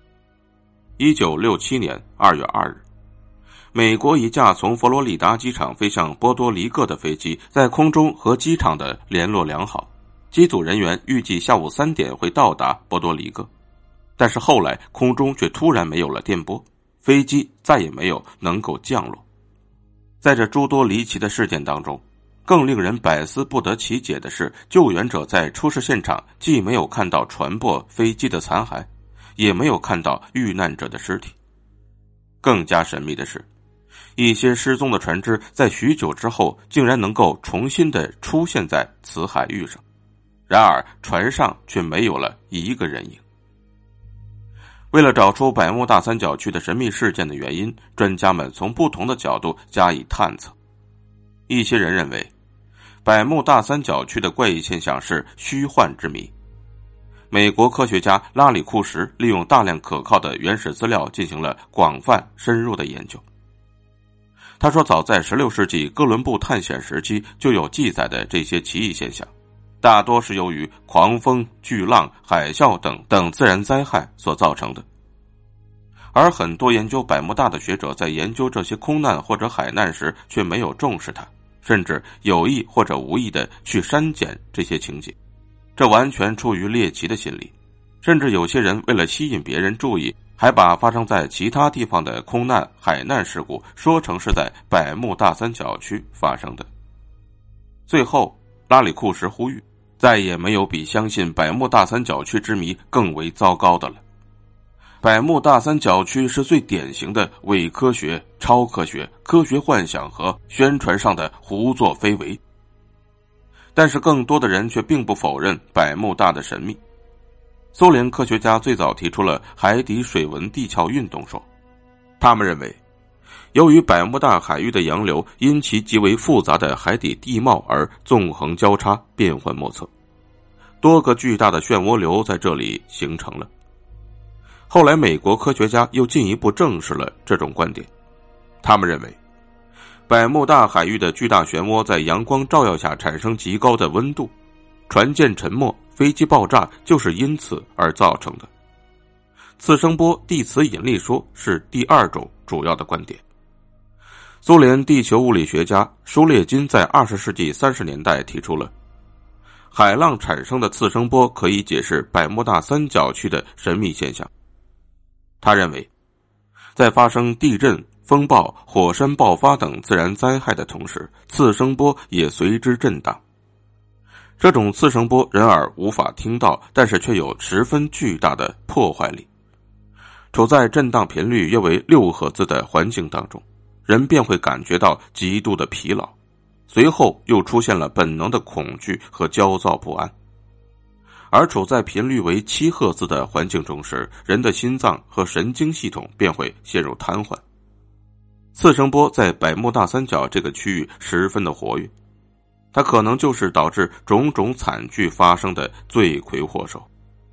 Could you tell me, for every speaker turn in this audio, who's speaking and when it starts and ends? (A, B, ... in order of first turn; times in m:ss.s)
0:01.0-0:02.8 A
0:03.7-0:13.5 A
0:14.2-0:19.2 A
0:20.2-0:31.4 A
0:32.4-0:33.5 A
0:34.2-0:39.8 A
0:40.5-0:43.2 A
0:44.9-0:50.6 A
0:51.5-0:52.3 A
0:53.0-0:56.3 A
0:57.3-1:03.2 A
1:04.6-1:14.9 A
1:16.1-1:25.2 A
1:25.8-1:36.7 A
1:37.9-1:44.0 A
1:45.0-1:52.4 A
1:53.8-1:56.8 A
1:57.7-2:01.5 A
2:02.2-2:02.8 A
2:03.5-2:09.9 A
2:10.8-2:13.5 A
2:14.7-2:17.9 A
2:18.6-2:19.2 A
2:20.1-2:24.3 A
2:24.9-2:28.5 A
2:29.6-2:33.2 A
2:34.4-2:38.7 A
2:39.7-2:44.3 A
2:45.4-2:45.9 A
2:46.8-2:53.2 A
2:54.4-2:59.3 A
3:00.3-3:06.1 A
3:06.7-3:10.1 A
3:11.3-3:17.4 A
3:18.5-3:21.9 A
3:22.7-3:26.9 A